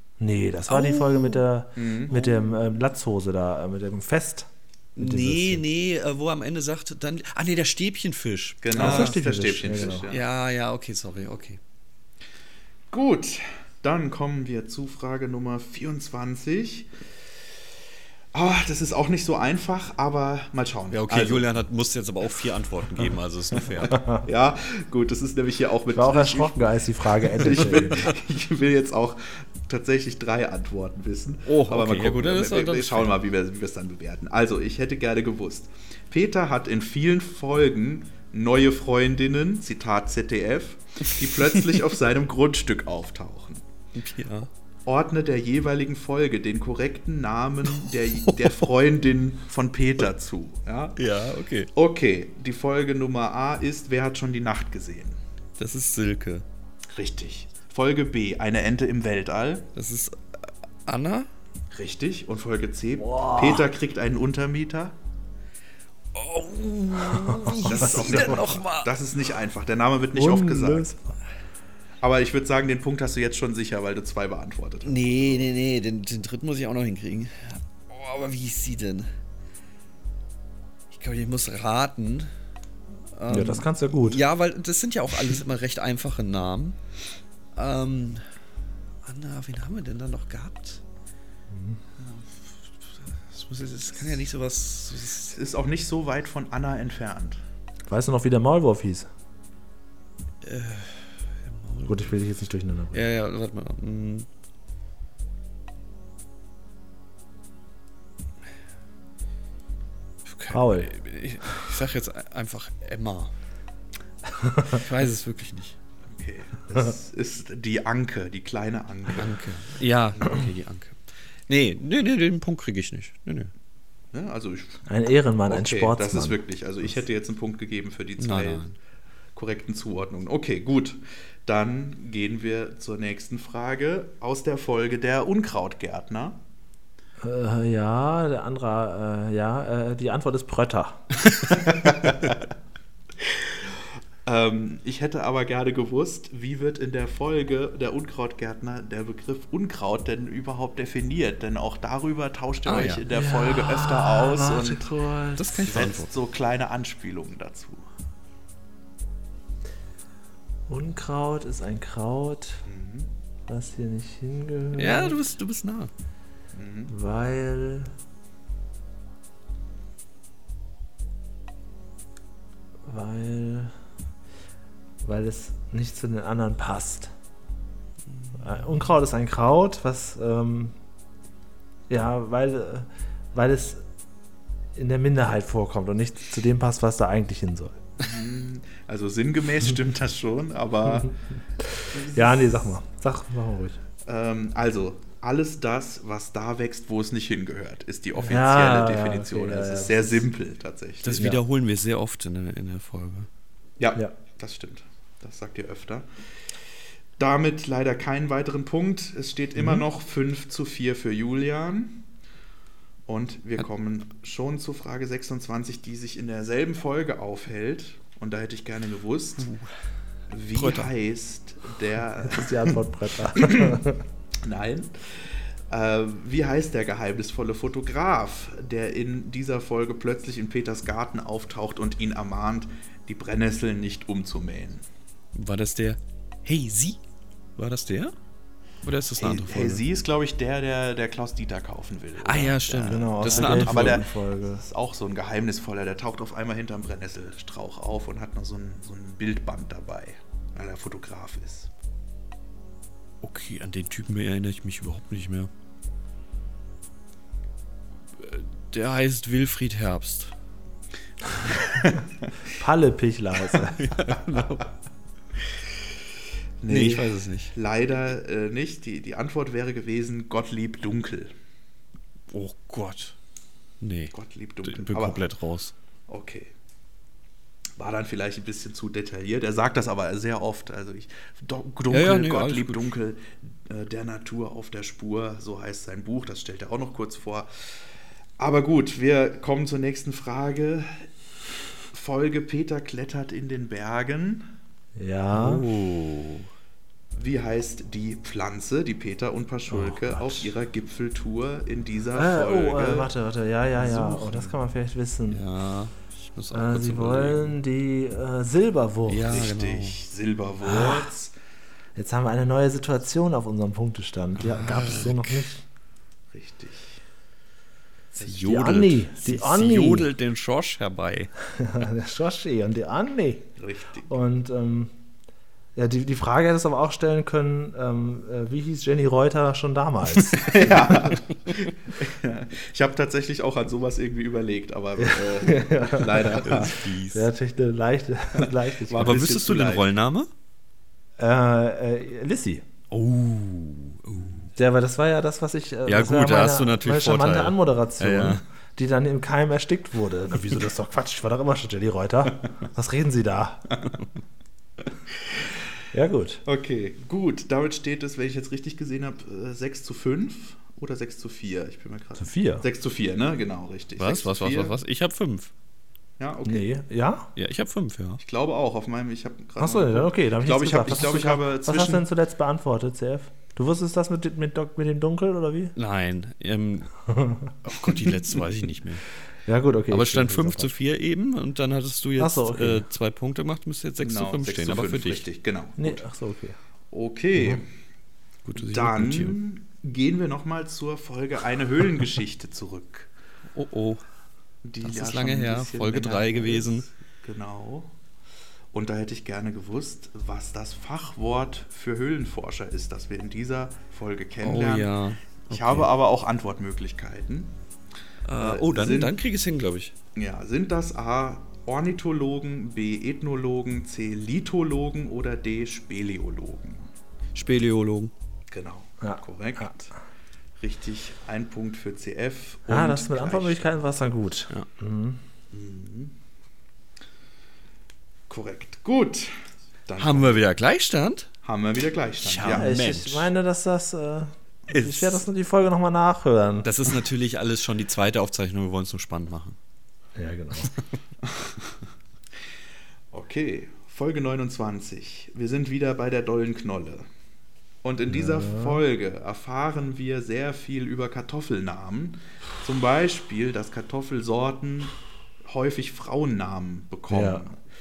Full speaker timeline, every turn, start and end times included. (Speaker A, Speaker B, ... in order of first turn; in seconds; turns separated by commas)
Speaker A: 0.2-5.6, Speaker B: 0.7-1.4, Speaker C: 1.8-2.5, Speaker B: 5.0-9.2, Speaker C: 8.6-10.2, Speaker A: 8.7-10.1, Speaker B: 9.7-11.6, Speaker C: 12.9-16.9, Speaker C: 18.3-21.5, Speaker B: 20.9-24.1, Speaker C: 23.8-43.6, Speaker A: 25.9-28.1, Speaker B: 31.5-33.1, Speaker B: 43.9-44.5, Speaker C: 44.9-51.0, Speaker B: 47.8-48.6, Speaker B: 51.0-51.7, Speaker C: 51.7-55.2, Speaker B: 55.6-56.4, Speaker C: 56.9-59.7, Speaker B: 59.8-60.2, Speaker B: 60.9-61.3, Speaker C: 61.7-65.0, Speaker A: 63.0-63.6, Speaker B: 66.1-68.9, Speaker C: 67.6-70.9, Speaker A: 70.1-71.1, Speaker C: 72.0-75.5, Speaker B: 74.8-79.1, Speaker B: 80.9-82.3, Speaker B: 83.1-86.8, Speaker A: 83.3-84.2, Speaker B: 87.5-88.2, Speaker B: 89.0-90.8, Speaker A: 91.5-91.8, Speaker B: 93.3-95.4, Speaker C: 95.3-97.4, Speaker A: 97.9-99.1, Speaker B: 100.4-102.2, Speaker A: 101.9-103.0, Speaker B: 102.9-104.3, Speaker B: 110.2-113.3, Speaker A: 110.5-110.9, Speaker B: 114.6-115.8, Speaker C: 116.1-119.4, Speaker B: 119.1-123.5, Speaker C: 124.1-124.8, Speaker A: 124.8-126.4, Speaker C: 125.5-128.6, Speaker B: 128.2-128.7, Speaker C: 129.3-136.4, Speaker A: 137.2-141.0, Speaker C: 141.5-142.4, Speaker C: 143.2-154.9, Speaker B: 152.6-153.1, Speaker A: 153.1-155.6, Speaker B: 155.4-156.1, Speaker C: 155.6-157.9, Speaker A: 160.7-162.6, Speaker C: 162.7-163.1, Speaker A: 163.5-165.2, Speaker B: 164.8-165.9, Speaker C: 166.5-166.9, Speaker A: 166.9-167.9, Speaker A: 172.9-173.7, Speaker A: 175.0-177.1, Speaker A: 178.4-180.7, Speaker A: 181.9-183.8, Speaker A: 184.8-187.8, Speaker C: 188.0-191.2, Speaker A: 191.6-193.8, Speaker C: 191.9-192.6, Speaker C: 194.0-201.2, Speaker A: 198.2-200.2, Speaker B: 201.0-203.3, Speaker C: 203.8-206.1, Speaker C: 207.2-212.0, Speaker C: 213.1-219.5, Speaker B: 219.4-219.7, Speaker C: 220.3-222.8, Speaker B: 220.5-220.9, Speaker A: 222.2-224.0, Speaker C: 223.3-223.8, Speaker C: 224.4-234.8, Speaker B: 235.3-237.0, Speaker B: 237.6-238.1, Speaker B: 238.8-239.8, Speaker C: 239.2-251.7, Speaker B: 242.2-244.1, Speaker A: 242.9-244.6, Speaker B: 253.2-255.5, Speaker B: 258.2-260.3, Speaker A: 262.5-263.9, Speaker B: 263.6-264.7, Speaker C: 266.6-271.3, Speaker B: 266.7-267.5, Speaker B: 272.3-273.1, Speaker B: 273.8-275.7, Speaker C: 274.1-275.2, Speaker C: 276.1-276.5, Speaker C: 277.8-287.8, Speaker B: 281.9-282.9, Speaker C: 288.4-291.1, Speaker C: 291.9-294.5, Speaker A: 295.0-295.6, Speaker B: 295.3-296.5, Speaker C: 297.1-303.1, Speaker A: 299.7-300.5, Speaker A: 302.1-305.4, Speaker B: 303.9-304.4, Speaker B: 305.3-307.6, Speaker A: 306.5-309.3, Speaker B: 309.1-310.0, Speaker C: 309.2-311.3, Speaker A: 310.6-311.1, Speaker A: 311.9-315.6, Speaker B: 314.4-315.3, Speaker C: 316.3-317.0, Speaker B: 318.2-321.3, Speaker A: 318.3-320.1, Speaker A: 321.5-323.5, Speaker C: 323.6-324.1, Speaker A: 324.1-324.9, Speaker A: 325.8-330.8, Speaker C: 330.4-336.8, Speaker A: 335.0-336.5, Speaker B: 336.3-337.3, Speaker A: 337.1-339.2, Speaker C: 338.9-339.9, Speaker B: 339.0-340.3, Speaker A: 341.2-342.6, Speaker B: 342.9-344.5, Speaker A: 344.6-353.8, Speaker B: 345.9-348.4, Speaker A: 355.9-356.4, Speaker C: 356.4-364.8, Speaker A: 362.2-362.6, Speaker B: 364.0-365.5, Speaker C: 366.2-366.7, Speaker A: 366.4-367.3, Speaker B: 367.4-368.2, Speaker C: 368.2-372.1, Speaker A: 369.6-375.7, Speaker B: 375.8-376.9, Speaker A: 377.1-377.5, Speaker B: 377.6-379.0, Speaker A: 379.4-380.7, Speaker B: 379.9-385.2, Speaker A: 382.2-382.8, Speaker C: 384.0-386.0, Speaker A: 385.8-386.6, Speaker C: 386.9-387.7, Speaker B: 388.4-389.4, Speaker C: 388.6-393.1, Speaker B: 393.5-394.0, Speaker C: 394.6-397.9, Speaker B: 394.8-396.9, Speaker C: 398.7-404.9, Speaker B: 404.4-405.9, Speaker C: 405.5-407.6, Speaker B: 408.2-409.9, Speaker C: 408.4-409.2, Speaker C: 410.1-416.9, Speaker B: 417.3-418.1, Speaker C: 418.5-419.9, Speaker A: 419.0-419.7, Speaker C: 420.6-423.6, Speaker A: 422.7-425.2, Speaker C: 425.5-426.1, Speaker C: 428.3-429.3, Speaker C: 429.9-430.4, Speaker B: 430.0-431.3, Speaker C: 431.4-432.7, Speaker B: 432.2-433.3, Speaker A: 432.5-436.7, Speaker B: 434.7-435.2, Speaker B: 436.6-439.6, Speaker A: 440.1-440.7, Speaker C: 441.2-441.7, Speaker C: 443.1-447.1, Speaker C: 447.8-457.6, Speaker A: 448.1-448.8, Speaker A: 457.1-457.5